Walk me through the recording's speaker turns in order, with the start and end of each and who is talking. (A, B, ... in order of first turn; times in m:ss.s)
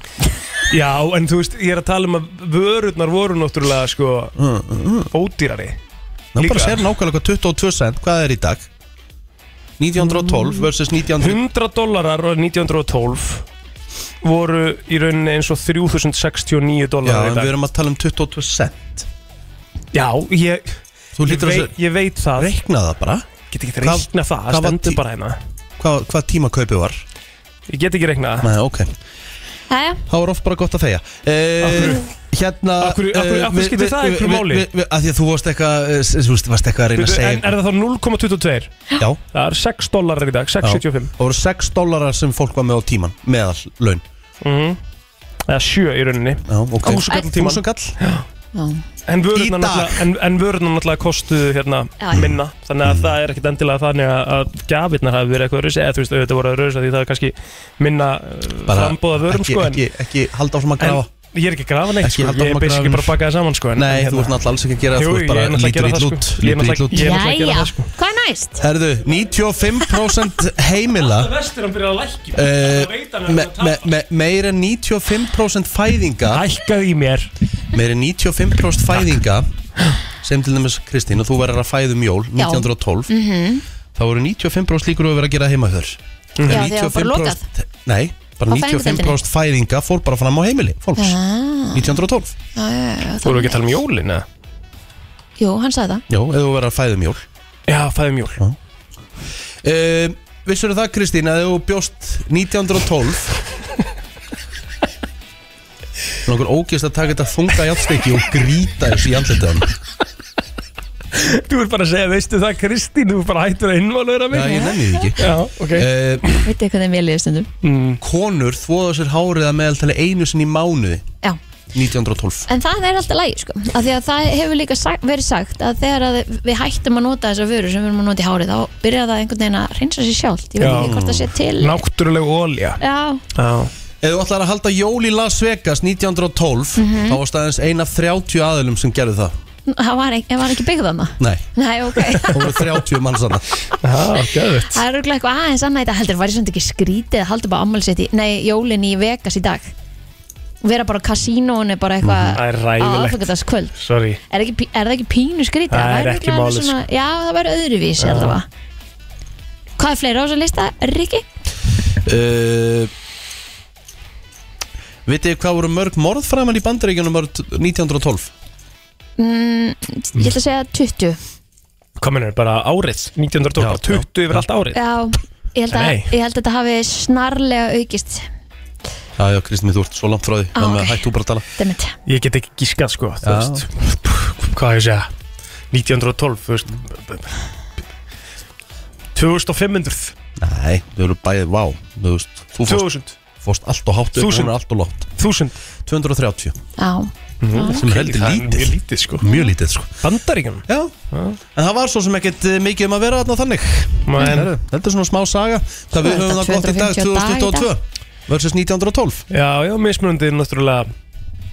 0:00.7-0:04.4 A
0:04.4-0:05.1 B
0:05.1-0:05.8 A
0:06.3-0:08.7 B
0:06.4-0:06.8 A
0:09.8-0:11.4 B
0:10.1-0:10.6 A
0:11.2-0:13.4 A
0:14.2-0:17.6 A
0:17.0-0:19.1 B
0:19.9-0:22.6 A
0:21.2-0:21.7 B
0:22.3-0:23.3 B
0:23.5-0:25.4 A
0:23.8-0:25.0 B
0:25.8-0:27.0 B
0:27.7-0:28.5 A
0:28.4-0:28.9 B
0:29.7-0:30.0 C
0:30.1-0:37.5 B
0:31.6-0:32.0 A
0:32.8-0:34.7 A
0:37.0-0:41.1 A
0:40.6-0:44.0 B
0:44.4-0:44.8 A
0:45.5-0:48.2 A
0:46.5-0:48.0 B
0:48.5-0:48.8 C
0:49.1-0:59.8 A
0:49.3-0:50.0 B
0:52.0-0:52.3 C
0:52.1-0:53.2 B
0:58.7-1:01.1 B
1:00.8-1:04.4 A
1:02.0-1:03.2 B
1:03.8-1:07.1 B
1:04.9-1:07.9 A
1:06.9-1:08.6 C
1:08.6-1:11.3 B
1:11.0-1:13.9 A
1:12.3-1:16.4 B
1:16.3-1:17.3 A
1:17.7-1:19.5 B
1:20.2-1:23.1 B
1:22.4-1:23.6 C
1:23.9-1:31.2 B
1:26.4-1:26.7 A
1:26.4-1:27.4 C
1:28.5-1:29.2 C
1:31.0-1:32.0 C
1:31.7-1:32.3 B
1:32.5-1:33.6 C
1:33.2-1:34.2 A
1:35.4-1:36.0 C
1:36.1-1:37.2 B
1:37.7-1:38.4 A
1:39.6-1:43.4 B
1:46.2-1:49.7 B
1:51.1-1:56.4 A
1:54.3-1:56.3 B
1:54.4-1:55.1 C
1:56.4-1:57.5 C
1:57.6-1:58.0 A
1:58.0-2:01.0 B
2:01.7-2:02.5 B
2:02.5-2:11.8 C
2:10.6-2:10.9 A
2:10.8-2:11.3 B
2:11.6-2:12.8 A
2:12.8-2:13.2 C
2:13.3-2:13.7 A
2:14.0-2:19.3 B
2:16.8-2:17.2 C
2:19.7-2:22.6 C
2:21.2-2:21.4 B
2:22.2-2:23.4 B
2:23.8-2:24.8 A
2:24.7-2:29.7 C
2:30.6-2:33.8 C
2:32.0-2:32.4 B
2:32.3-2:34.2 A
2:34.3-2:38.5 C
2:35.7-2:36.8 A
2:38.0-2:38.4 A
2:39.8-2:41.2 C
2:42.0-2:42.9 B
2:45.0-2:48.3 B
2:49.2-2:51.2 C
2:52.0-2:54.8 A
2:53.6-2:54.4 B
2:54.7-2:58.3 C
2:55.7-2:56.1 A
2:59.2-3:01.4 B
3:00.5-3:02.0 C
3:02.0-3:05.1 A
3:03.2-3:03.6 B
3:05.7-3:07.4 A
3:09.1-3:10.1 A
3:10.4-3:12.9 B
3:12.6-3:13.2 A
3:13.4-3:15.1 B
3:14.2-3:14.5 A
3:15.1-3:15.6 A
3:15.8-3:16.6 B
3:16.8-3:17.8 C
3:17.4-3:19.3 A
3:17.7-3:20.0 B
3:19.2-3:19.5 C
3:20.0-3:21.4 A
3:20.7-3:20.9 B
3:21.5-3:29.2 B
3:24.0-3:24.5 A
3:26.0-3:27.7 C
3:29.3-3:30.9 A